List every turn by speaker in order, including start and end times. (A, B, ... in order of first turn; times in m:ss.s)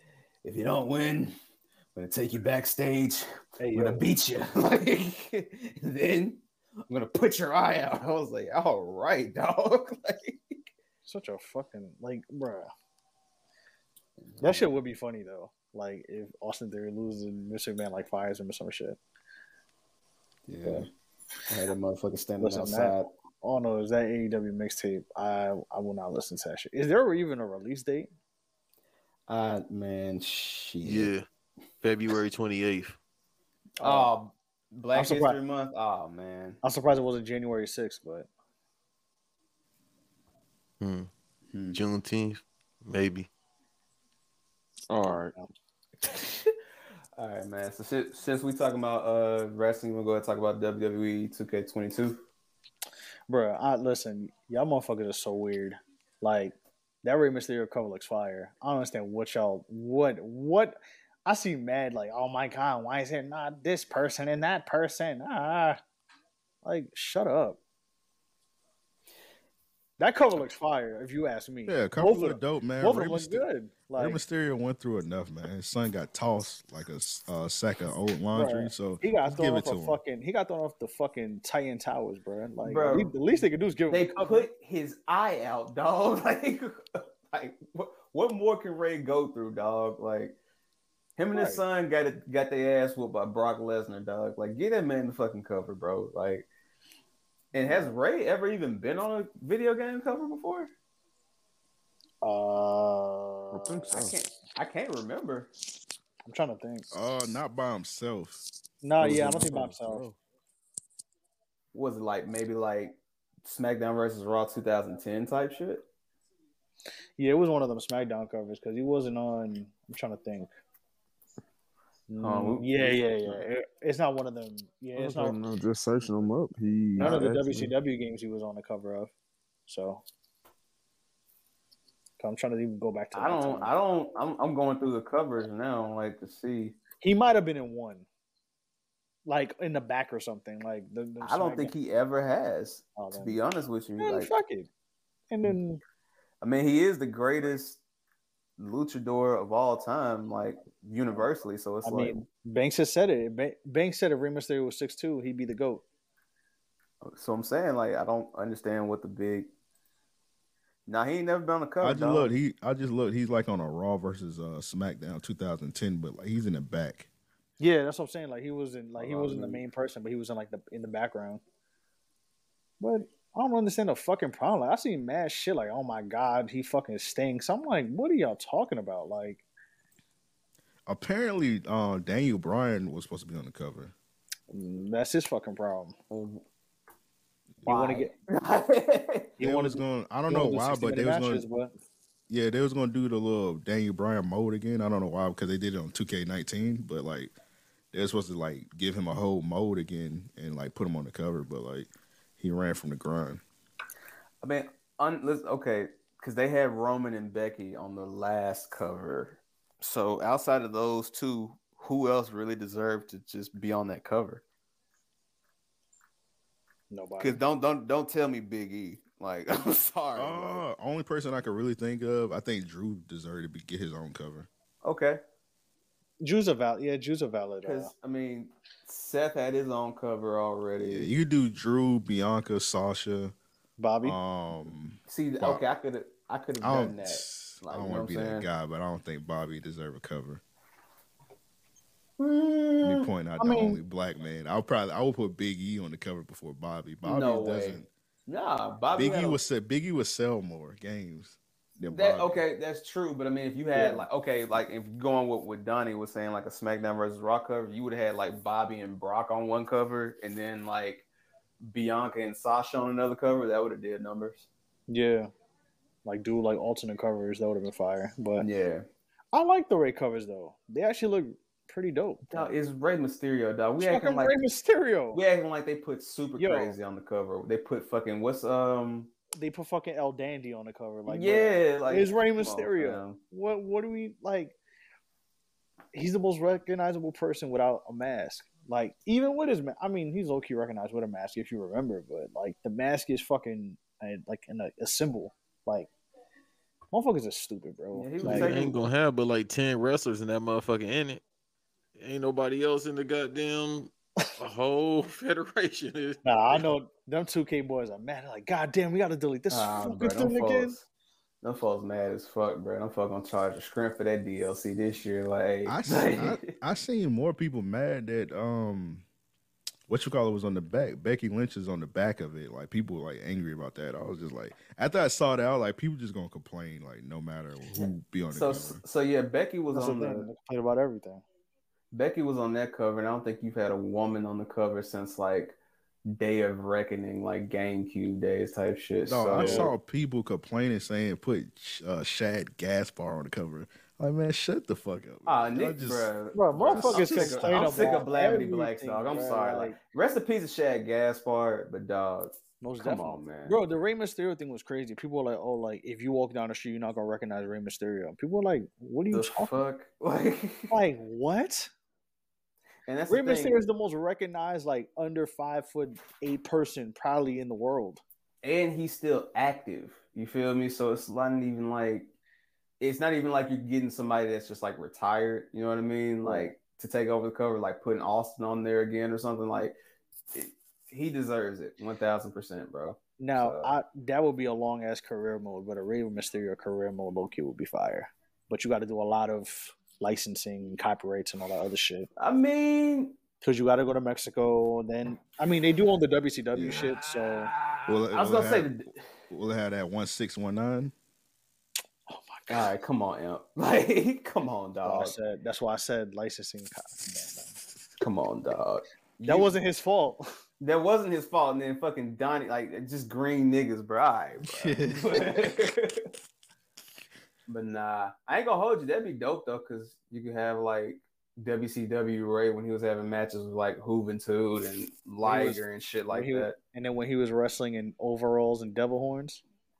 0:00.4-0:01.3 A
0:01.9-0:10.7 A
0:03.6-0:04.0 B
0:11.0-0:12.7 B
0:14.2-0:14.7 A
0:14.4-0:19.0 B
0:20.5-0:20.9 A
0:21.5-0:23.1 A
0:22.4-0:28.1 B
0:29.3-0:31.1 A
0:30.8-0:31.2 C
0:31.8-0:33.0 C
0:33.8-0:36.6 A
0:33.8-0:34.1 B
0:34.9-0:35.4 B
0:36.6-0:38.3 B
0:40.8-0:41.1 C
0:41.5-0:41.8 A
0:41.7-0:43.3 C
0:44.9-0:45.3 D
0:46.0-0:46.5 A
0:47.2-0:52.2 A
0:53.3-1:05.8 B
1:06.6-1:07.6 B
1:10.0-1:14.2 B
1:11.6-1:13.4 E
1:14.0-1:20.0 E
1:18.3-1:24.5 B
1:22.6-1:30.4 A
1:31.2-1:36.5 A
1:31.3-1:31.6 B
1:37.5-1:40.7 A
1:37.5-1:37.9 B
1:42.2-1:43.9 B
1:43.5-1:44.2 D
1:43.9-1:45.5 A
1:46.2-1:46.9 B
1:46.9-1:48.4 E
1:48.8-1:50.0 B
1:49.0-1:50.2 D
1:51.7-1:55.8 A
1:57.2-2:00.5 B
2:02.1-2:05.4 B
2:02.2-2:03.4 A
2:04.9-2:07.7 D
2:07.0-2:07.2 A
2:07.0-2:09.1 B
2:09.7-2:10.0 B
2:12.2-2:13.7 B
2:13.1-2:16.8 A
2:17.0-2:18.1 B
2:19.2-2:21.7 B
2:21.2-2:24.3 A
2:23.0-2:23.4 B
2:24.0-2:24.7 B
2:25.3-2:25.8 B
2:26.4-2:27.8 A
2:28.6-2:32.2 A
2:31.8-2:35.8 B
2:37.0-2:39.5 A
2:40.9-2:42.3 A
2:41.8-2:47.1 E
2:47.6-2:51.4 B
2:49.0-2:49.6 D
2:52.8-2:59.4 B
3:00.9-3:03.9 E
3:04.5-3:06.0 B
3:06.1-3:06.4 A
3:07.6-3:08.1 B
3:07.6-3:09.4 A
3:09.4-3:11.7 B
3:09.4-3:11.4 E
3:12.3-3:17.3 E
3:17.9-3:23.4 E
3:24.4-3:34.4 A
3:36.9-3:37.4 B
3:37.2-3:40.6 A
3:40.2-3:44.5 E
3:44.8-3:45.2 A
3:46.2-3:47.9 B
3:47.6-3:51.1 A
3:50.8-3:53.3 E
3:53.8-3:54.2 B
3:54.0-3:55.6 E
3:55.0-3:58.5 A
3:56.6-4:00.4 E
4:02.2-4:03.1 A
4:02.8-4:07.9 E
4:03.4-4:03.8 B
4:07.0-4:09.4 A
4:08.9-4:12.4 E
4:11.9-4:21.0 A
4:13.8-4:14.0 B
4:21.6-4:24.5 A
4:24.9-4:25.3 B
4:26.0-4:28.4 B
4:28.4-4:28.9 A
4:29.3-4:32.5 B
4:32.3-4:34.4 A
4:33.8-4:35.2 B
4:35.1-4:39.1 A
4:36.4-4:36.8 B
4:39.3-4:44.6 B
4:41.0-4:43.2 A
4:45.9-4:55.9 B
4:56.9-4:58.5 B
4:57.9-4:58.8 A
4:58.2-5:01.2 C
5:02.0-5:06.6 C
5:06.2-5:10.7 B
5:09.5-5:10.9 A
5:11.4-5:16.5 A
5:15.6-5:19.0 E
5:19.9-5:28.8 E
5:27.7-5:30.3 A
5:29.7-5:31.2 B
5:31.9-5:39.7 A
5:39.1-5:48.0 E
5:39.3-5:39.7 B
5:45.2-5:53.6 A
5:46.3-5:49.8 B
5:52.6-5:59.5 B
5:59.1-6:00.7 A
6:00.7-6:01.7 B
6:02.8-6:03.6 A
6:03.1-6:08.0 B
6:08.4-6:12.1 A
6:12.8-6:19.8 A
6:16.2-6:16.5 B
6:20.3-6:23.8 A
6:23.2-6:32.1 B
6:32.2-6:33.2 A
6:33.4-6:37.5 B
6:36.5-6:36.9 E
6:36.6-6:39.0 A
6:37.9-6:38.8 E
6:39.3-6:40.9 E
6:42.1-6:42.7 B
6:42.5-6:45.1 A
6:44.8-6:47.5 B
6:48.0-6:49.5 A
6:49.2-6:50.2 B
6:50.6-6:56.0 A
6:54.5-6:55.3 E
6:57.5-7:06.6 A
7:05.2-7:09.4 B